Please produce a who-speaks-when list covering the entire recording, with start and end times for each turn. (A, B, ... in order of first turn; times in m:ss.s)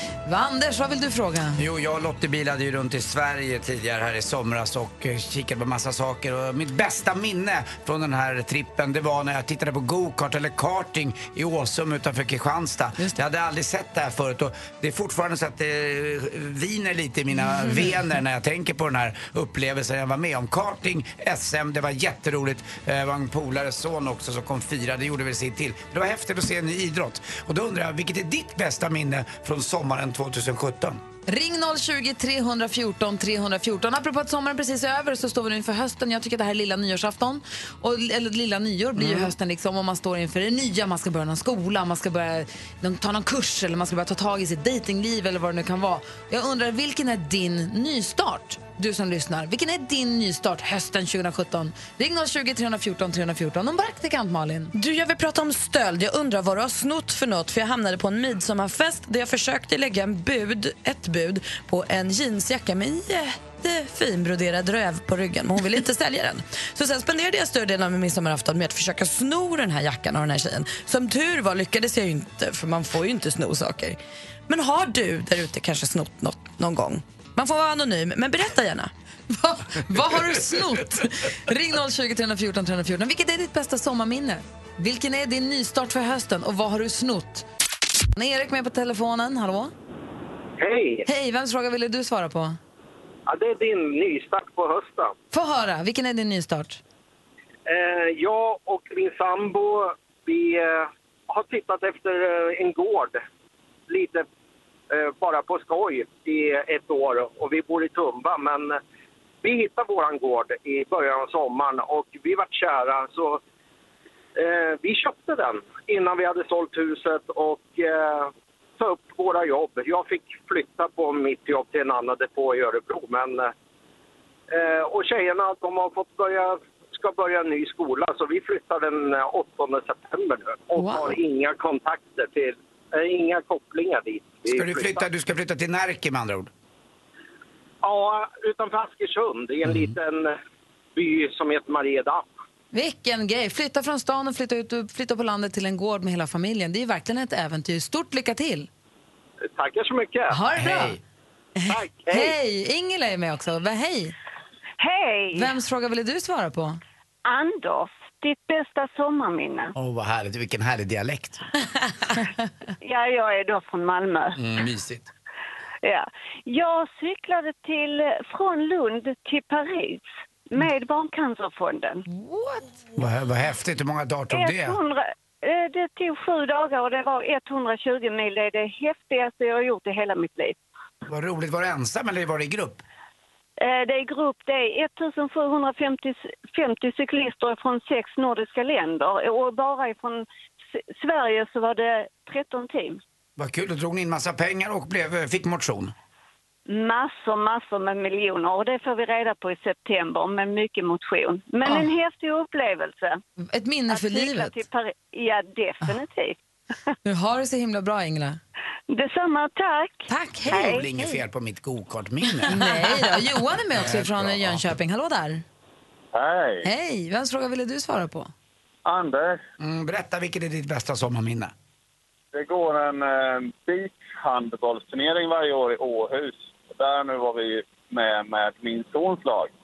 0:00.2-0:01.6 A
0:01.6-0:31.0 B
0:31.3-0:54.7 A
0:39.0-0:39.3 B
0:54.7-1:18.9 C
1:19.3-1:27.4 A
1:28.2-1:29.7 A
1:30.6-1:31.1 D
1:31.0-1:32.6 A
1:33.3-1:35.1 D
1:35.3-1:36.8 A
1:37.6-1:43.2 D
1:43.9-1:44.2 D
1:44.9-1:48.8 D
1:49.4-1:53.4 D
1:54.4-2:03.5 D
2:04.5-2:15.1 D
2:10.8-2:11.2 A
2:14.5-2:16.5 B
2:17.8-2:20.3 D
2:21.0-2:22.3 D
2:22.7-2:28.7 A
2:29.6-2:30.4 D
2:30.3-2:31.0 A
2:30.6-2:31.0 B
2:31.6-2:34.1 A
2:31.7-2:32.4 D
2:34.8-2:35.5 E
2:35.3-2:36.8 A
2:37.2-2:39.7 E
2:39.7-2:41.4 B
2:42.8-2:44.4 E
2:44.4-2:45.1 B
2:45.8-2:52.0 E
2:52.1-2:52.7 A
2:53.0-2:54.8 B
2:54.3-3:00.6 E
3:01.0-3:02.8 B
3:03.6-3:13.0 E
3:13.4-3:15.9 B
3:16.7-3:23.2 E
3:23.5-3:24.6 A
3:23.9-3:26.4 E
3:27.0-3:28.4 A
3:28.9-3:31.2 E
3:30.1-3:30.9 A
3:30.5-3:32.6 B
3:32.5-3:35.4 A
3:33.8-3:34.7 B
3:36.1-3:36.7 F
3:36.6-3:38.3 A
3:38.8-3:39.4 F
3:39.6-3:41.5 B
3:42.3-3:49.5 F